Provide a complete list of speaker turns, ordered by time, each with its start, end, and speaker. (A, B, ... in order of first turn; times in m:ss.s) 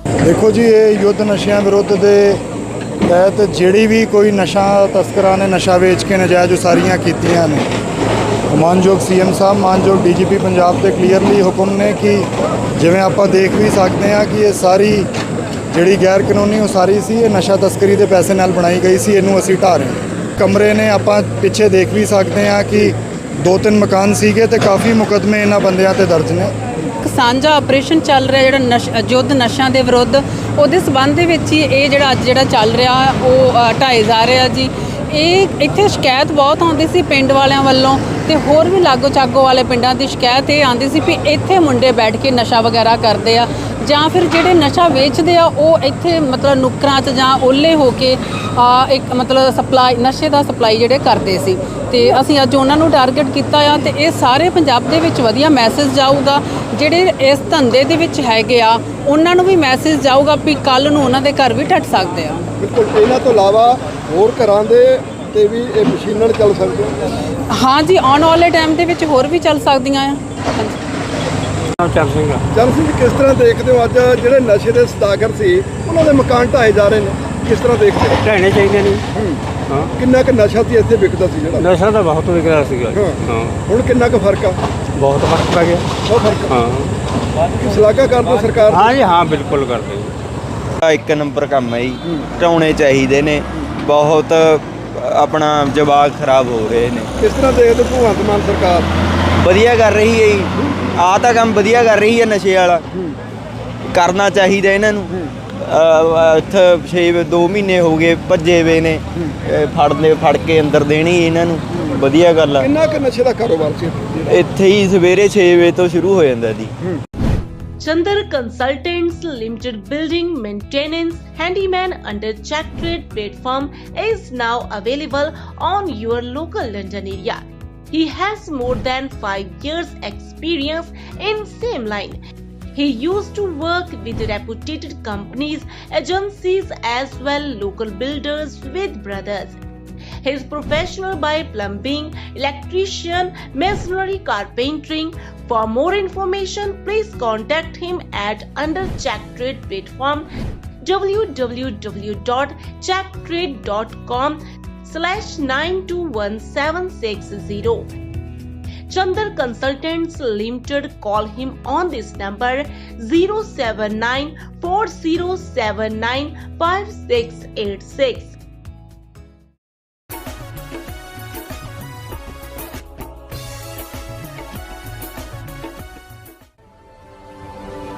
0:00.2-0:02.4 A
0:03.1-0:07.7 A
0:08.5-0:12.3 A
0:12.8-0:15.1 A
0:15.7-0:26.5 A
0:27.0-1:02.4 B
1:02.6-1:07.0 C
1:07.5-1:10.8 B
1:11.8-1:12.4 D
1:12.6-1:18.2 C
1:18.2-1:19.0 D
1:19.2-1:19.4 C
1:19.7-1:20.0 D
1:20.0-1:21.7 C
1:21.6-1:23.6 D
1:22.9-1:24.6 C
1:25.0-1:25.9 D
1:26.1-1:26.7 C
1:26.5-1:26.9 D
1:27.6-1:29.0 C
1:28.7-1:30.2 D
1:30.8-1:37.1 E
1:37.2-1:38.9 C
1:39.4-1:42.8 E
1:43.9-1:52.7 E
1:52.6-1:54.5 C
1:54.3-1:56.7 E
1:57.8-2:07.4 F
2:07.9-2:12.2 F
2:12.7-2:19.6 F
2:20.2-2:30.3 F
2:30.8-2:37.9 F
2:38.9-2:48.4 F